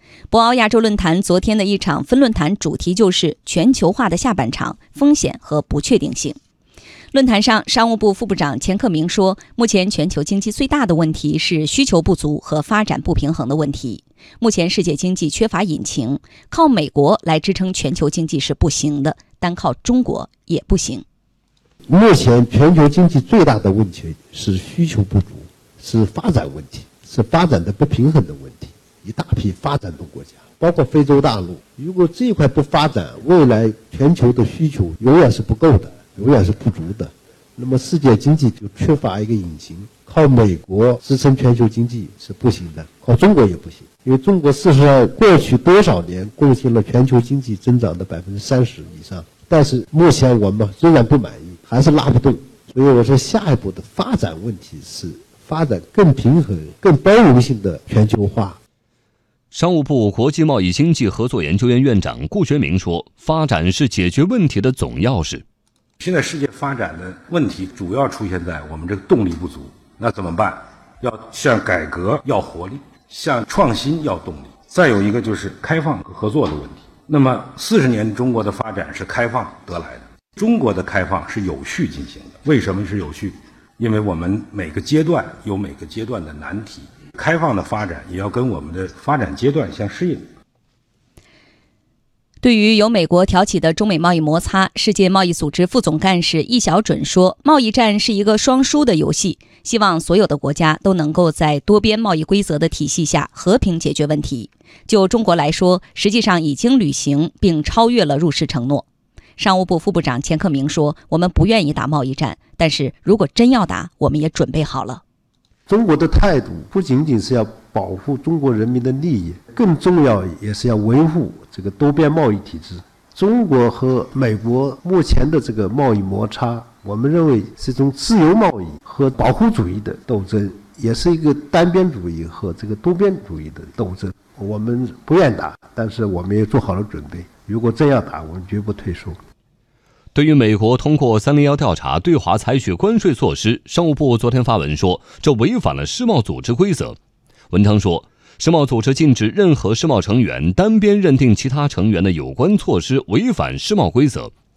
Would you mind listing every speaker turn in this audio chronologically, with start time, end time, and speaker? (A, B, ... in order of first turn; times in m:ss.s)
0:00.3-0:06.4 A
0:07.1-0:21.0 A
0:21.9-0:58.6 B
0:59.5-1:05.4 C
1:06.0-1:30.2 D
1:32.4-1:48.8 A
1:49.4-1:55.0 A
1:55.7-2:19.2 B
2:20.1-2:27.0 C
2:27.5-2:34.3 C